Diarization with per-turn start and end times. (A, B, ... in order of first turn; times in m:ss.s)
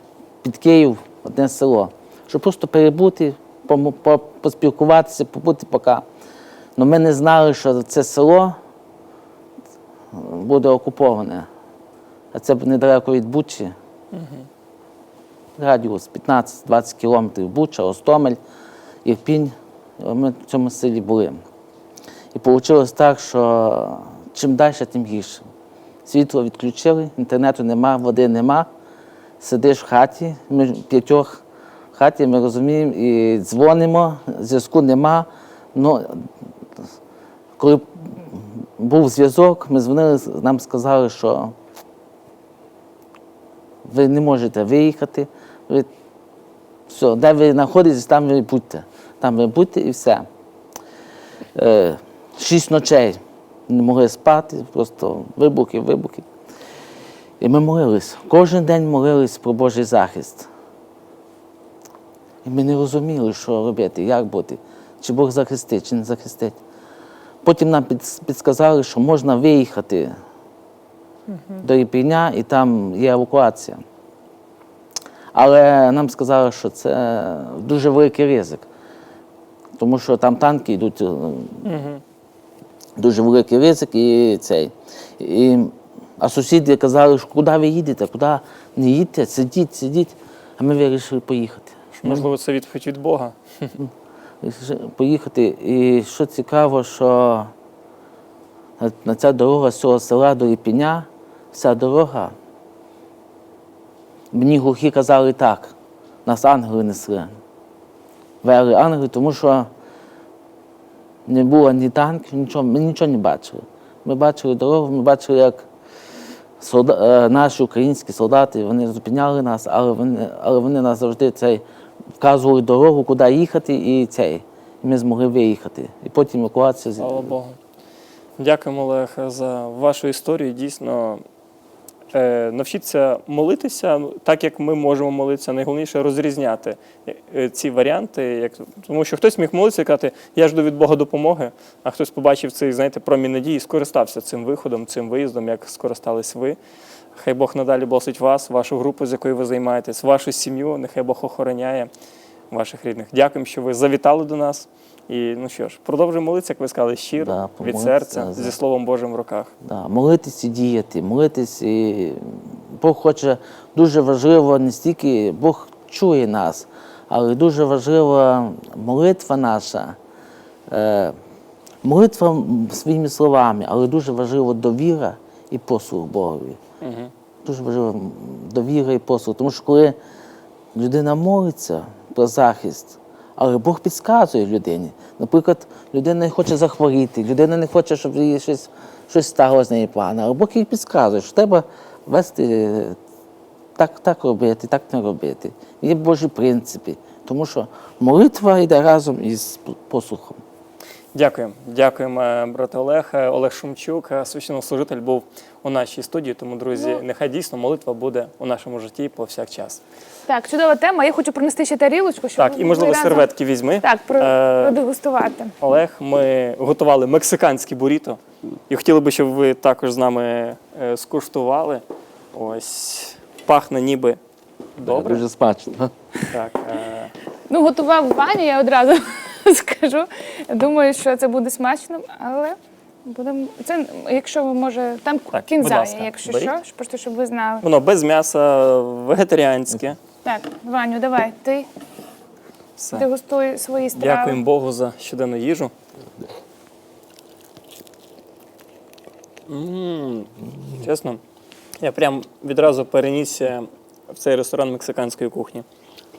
0:00.4-0:06.0 A
0:06.8-0:08.5 A
0:10.1-0:11.5 A
0:12.3-0:13.7 A
0:14.1-0:14.5 B
0:15.6-0:18.4 A
0:19.0-0:21.4 A
0:22.3-0:25.4 A
0:26.0-0:28.7 A
0:29.4-0:31.4 A
0:31.9-0:36.3 A
0:37.6-0:41.5 A
0:43.8-0:45.9 A
0:46.9-0:50.2 A
0:51.5-0:56.2 A
0:57.4-1:00.5 A
1:02.4-1:06.6 A
1:07.4-1:10.1 A
1:11.6-1:13.8 A
1:15.3-1:18.7 A
1:19.8-1:21.7 A
1:21.6-1:22.0 B
1:23.0-1:32.2 A
1:32.0-1:33.8 B
1:34.4-1:37.5 A
1:38.8-1:42.3 A
1:44.3-1:45.7 A
1:46.2-1:47.3 A
1:48.4-1:49.7 A
1:51.3-1:55.6 A
1:56.6-2:01.6 A
2:02.2-2:07.3 A
2:07.0-2:07.6 B
2:08.4-2:11.2 B
2:12.1-2:26.6 B
2:27.2-2:31.9 B
2:32.5-2:39.5 B
2:37.2-2:38.6 A
2:39.6-2:50.0 A
2:50.7-2:51.1 A
2:51.8-2:56.6 A
2:56.8-2:57.1 B
2:57.4-3:00.0 A
3:00.7-3:13.0 A
3:13.8-3:20.4 A
3:21.1-3:29.8 B
3:26.7-3:27.0 C
3:30.3-3:33.3 C
3:32.4-3:34.8 B
3:33.8-3:35.5 C
3:35.6-3:41.8 B
3:42.3-3:44.2 B
3:44.8-3:45.2 B
3:44.8-3:45.9 A
3:46.3-3:47.1 B
3:47.5-3:52.5 C
3:53.1-3:57.6 C
3:55.3-3:56.5 B
3:57.6-4:00.0 B
4:00.2-4:01.7 C
4:02.8-4:03.0 B
4:02.9-4:04.4 C
4:03.9-4:05.7 B
4:09.5-4:11.2 B
4:11.8-4:15.6 B